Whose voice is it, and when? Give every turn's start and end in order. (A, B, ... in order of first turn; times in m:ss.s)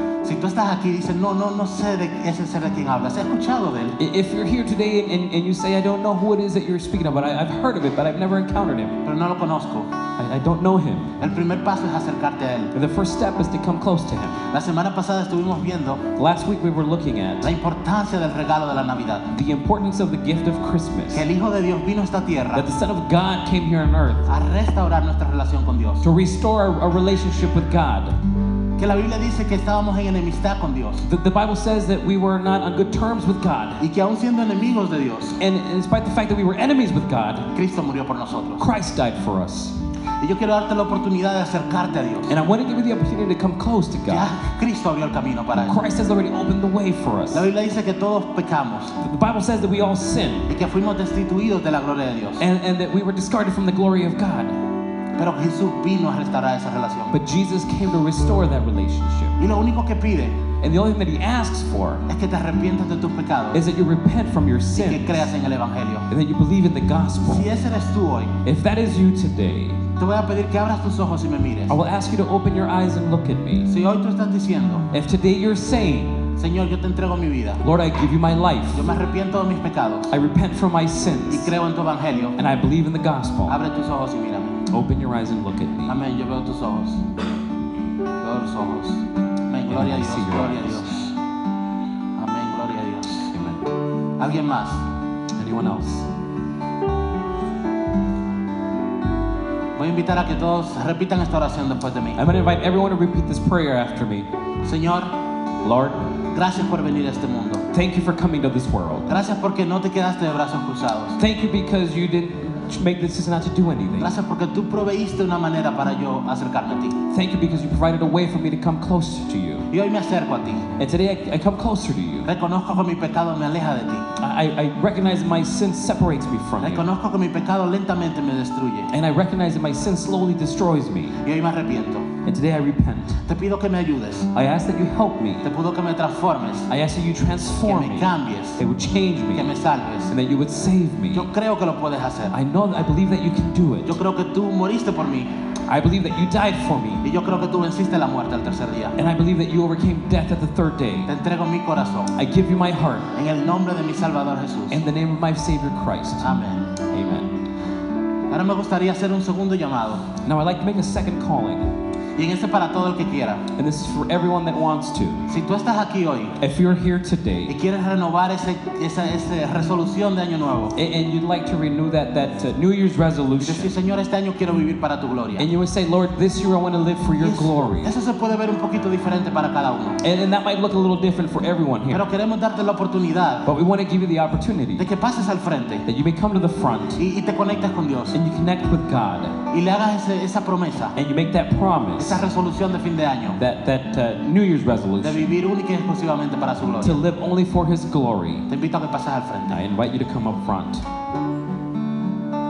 0:00.2-0:04.0 A
0:04.0-0:09.0 B
0:09.0-0:09.9 A
0:10.2-0:11.2 B
0:11.2-0:12.7 A
0:12.7-0:14.4 B
0:14.5-0:16.1 A
0:16.2-0:17.5 B
0:17.4-0:19.3 A
0:19.3-0:21.3 B
0:21.1-0:22.7 A
0:22.5-0:24.3 B
0:24.3-0:26.1 A
0:26.0-0:28.2 B
0:28.8-0:31.1 A
0:31.0-0:33.8 B
0:33.8-0:35.4 A
0:35.4-0:37.5 B
0:37.5-0:38.6 A
0:38.6-0:39.8 B
0:40.2-0:42.4 A
0:42.3-0:44.4 B
0:44.1-0:45.8 A
0:45.6-0:47.5 B
0:47.3-0:49.0 A
0:49.0-0:50.5 B
0:50.5-0:52.5 A
0:52.4-0:54.6 B
0:55.2-0:57.2 A
0:57.1-0:59.4 B
0:59.4-1:00.4 A
1:00.6-1:02.1 B
1:02.1-1:03.6 A
1:03.5-1:05.3 B
1:04.8-1:06.1 A
1:06.1-1:07.6 B
1:07.2-1:08.4 A
1:08.4-1:09.8 B
1:10.0-1:11.8 A
1:11.7-1:13.7 B
1:13.7-1:14.9 A
1:14.9-1:16.3 B
1:16.4-1:17.6 A
1:17.6-1:18.9 B
1:18.7-1:20.1 A
1:20.1-1:21.6 B
1:21.3-1:22.4 A
1:22.4-1:23.6 B
1:23.5-1:24.7 A
1:24.7-1:26.0 B
1:25.9-1:27.0 A
1:28.2-1:31.2 A
1:29.7-1:30.9 B
1:32.2-1:33.3 A
1:33.3-1:33.7 B
1:34.2-1:34.8 A
1:35.4-1:36.1 B
1:39.8-1:42.2 A
1:42.2-1:44.3 B
1:44.6-1:45.2 A
1:45.6-1:46.0 B
1:46.3-1:47.6 A
1:47.7-1:49.1 B
1:49.1-1:51.2 A
1:51.2-1:54.2 B
1:54.0-1:57.0 A
1:57.1-1:59.7 B
1:59.7-2:00.7 A
2:00.8-2:02.3 B
2:02.3-2:04.1 A
2:04.2-2:06.9 B
2:06.6-2:08.9 A
2:08.9-2:11.2 B
2:11.2-2:12.1 A
2:12.2-2:13.2 B
2:13.3-2:14.3 A
2:14.3-2:15.5 B
2:15.4-2:16.7 A
2:16.7-2:19.6 B
2:17.6-2:18.6 A
2:19.3-2:20.1 A
2:20.1-2:21.3 B
2:21.1-2:22.4 A
2:22.3-2:24.0 B
2:23.9-2:25.3 A
2:25.7-2:27.0 B
2:27.0-2:29.0 A
2:29.0-2:31.1 B
2:31.1-2:32.1 A
2:32.2-2:33.1 B
2:33.1-2:34.8 A
2:34.7-2:37.4 B
2:36.2-2:36.7 A
2:38.3-2:40.1 A
2:40.2-2:41.7 B
2:42.2-2:43.5 A
2:43.6-2:45.2 B
2:45.3-2:46.4 A
2:46.4-2:47.5 B
2:47.5-2:50.8 A
2:50.8-2:53.7 B
2:53.4-2:55.5 A
2:55.4-2:58.0 B
2:57.2-3:00.0 A
3:00.0-3:02.1 B
3:01.9-3:03.5 A
3:03.5-3:04.9 B
3:04.8-3:05.9 A
3:05.9-3:07.0 B
3:07.0-3:08.2 A
3:08.1-3:09.4 B
3:09.5-3:11.0 A
3:11.0-3:12.2 B
3:12.0-3:13.4 A
3:13.4-3:15.3 B
3:15.0-3:17.0 A
3:16.8-3:18.5 B
3:18.5-3:19.6 A
3:19.5-3:20.9 B